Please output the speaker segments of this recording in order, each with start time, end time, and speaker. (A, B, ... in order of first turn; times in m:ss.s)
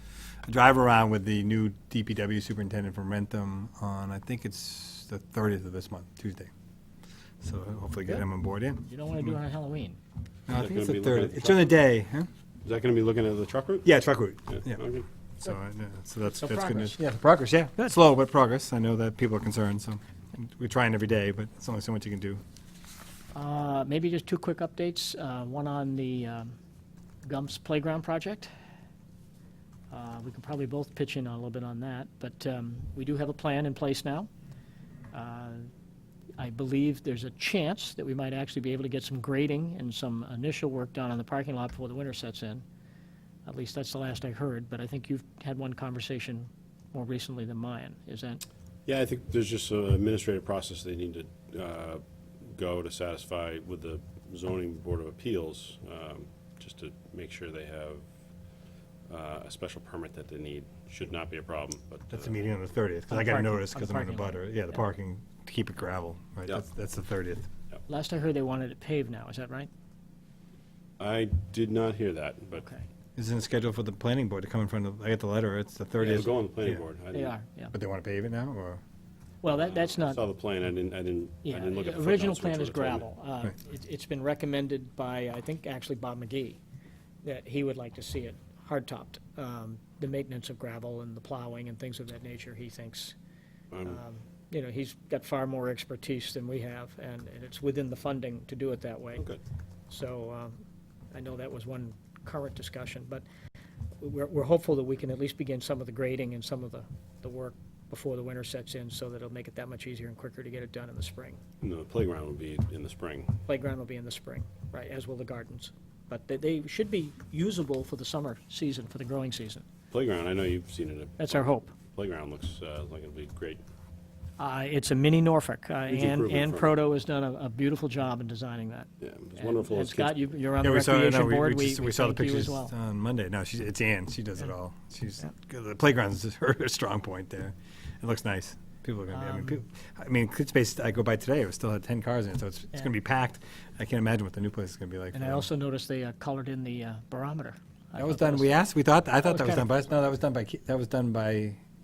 0:00.4-0:06.5 A
0:07.4-0:08.8 A
0:08.8-0:10.0 B
0:10.5-0:12.3 A
0:10.5-0:11.7 C
0:12.6-0:13.9 C
0:13.8-0:14.8 A
0:14.5-0:15.1 C
0:15.4-0:22.4 A
0:16.3-0:17.0 B
0:23.3-0:26.6 B
0:27.2-0:28.5 B
0:29.9-0:34.3 B
0:35.1-0:35.7 B
0:36.4-0:42.6 B
0:43.4-0:48.4 B
0:48.8-0:58.0 C
0:59.1-1:02.4 C
1:02.1-1:07.5 A
1:03.1-1:04.8 B
1:07.9-1:09.7 B
1:11.0-1:12.6 C
1:12.6-1:12.8 B
1:13.2-1:16.8 A
1:16.0-1:17.3 C
1:17.1-1:17.7 B
1:17.7-1:18.8 A
1:19.4-1:20.2 B
1:19.5-1:23.1 C
1:21.4-1:26.6 B
1:27.2-1:33.1 B
1:33.7-1:34.0 C
1:33.8-1:39.3 B
1:39.9-1:40.6 B
1:41.1-1:43.2 B
1:44.0-1:51.4 B
1:51.6-1:53.4 C
1:53.5-1:59.6 B
1:59.9-2:03.6 C
2:01.2-2:01.7 B
2:04.4-2:12.7 B
2:05.9-2:06.8 C
2:09.0-2:10.2 C
2:10.6-2:25.5 A
2:19.1-2:19.6 B
2:25.1-2:28.6 B
2:28.0-2:31.6 A
2:29.2-2:29.7 B